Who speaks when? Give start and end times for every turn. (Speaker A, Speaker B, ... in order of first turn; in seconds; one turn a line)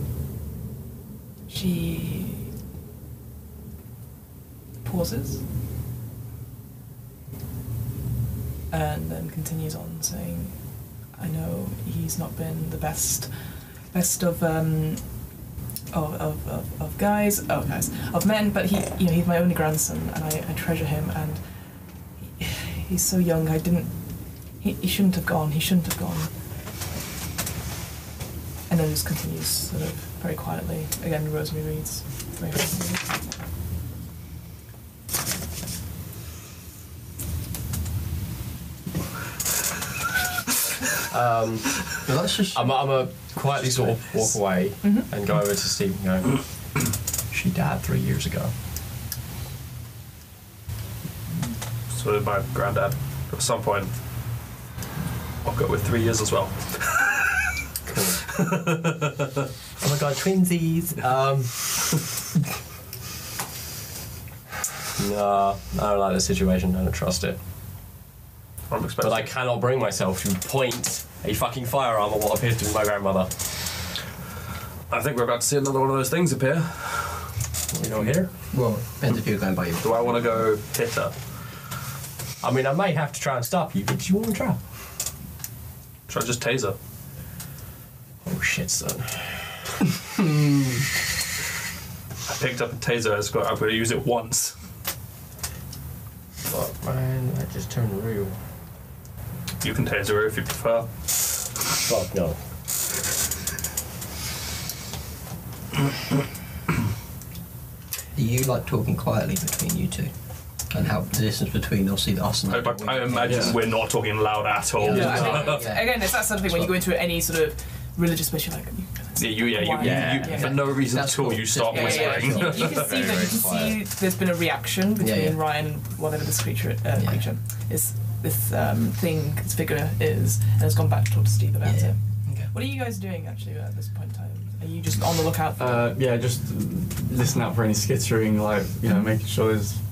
Speaker A: 1.5-2.5
Speaker A: 4.8-5.4
Speaker A: 8.7-10.6
Speaker A: 11.2-13.3
Speaker A: 13.9-15.0
Speaker A: 15.9-21.4
Speaker A: 22.2-23.9
Speaker A: 24.6-26.3
Speaker A: 28.7-33.2
Speaker B: 41.1-41.9
Speaker C: 42.0-42.8
Speaker B: 42.5-46.4
Speaker B: 47.3-48.5
Speaker D: 51.9-53.9
Speaker D: 55.4-57.4
Speaker B: 57.9-58.4
Speaker D: 58.3-59.4
Speaker B: 59.8-62.1
Speaker B: 65.0-67.4
Speaker D: 68.7-69.3
Speaker B: 69.0-73.3
Speaker D: 74.9-77.3
Speaker B: 77.7-78.3
Speaker D: 77.9-78.2
Speaker C: 78.5-80.1
Speaker D: 79.8-81.1
Speaker B: 82.4-84.6
Speaker D: 86.1-86.8
Speaker B: 88.2-89.9
Speaker D: 92.3-94.6
Speaker B: 96.5-98.4
Speaker D: 99.6-100.9
Speaker B: 101.8-102.4
Speaker C: 108.2-110.1
Speaker C: 110.7-113.6
Speaker D: 112.5-115.6
Speaker E: 113.3-113.5
Speaker C: 114.8-116.7
Speaker A: 114.9-120.5
Speaker B: 115.0-115.4
Speaker D: 119.2-122.9
Speaker B: 119.8-120.5
Speaker C: 119.8-122.8
Speaker A: 121.7-135.9
Speaker B: 121.8-123.8
Speaker C: 125.0-125.4
Speaker C: 131.6-132.5
Speaker E: 135.6-139.8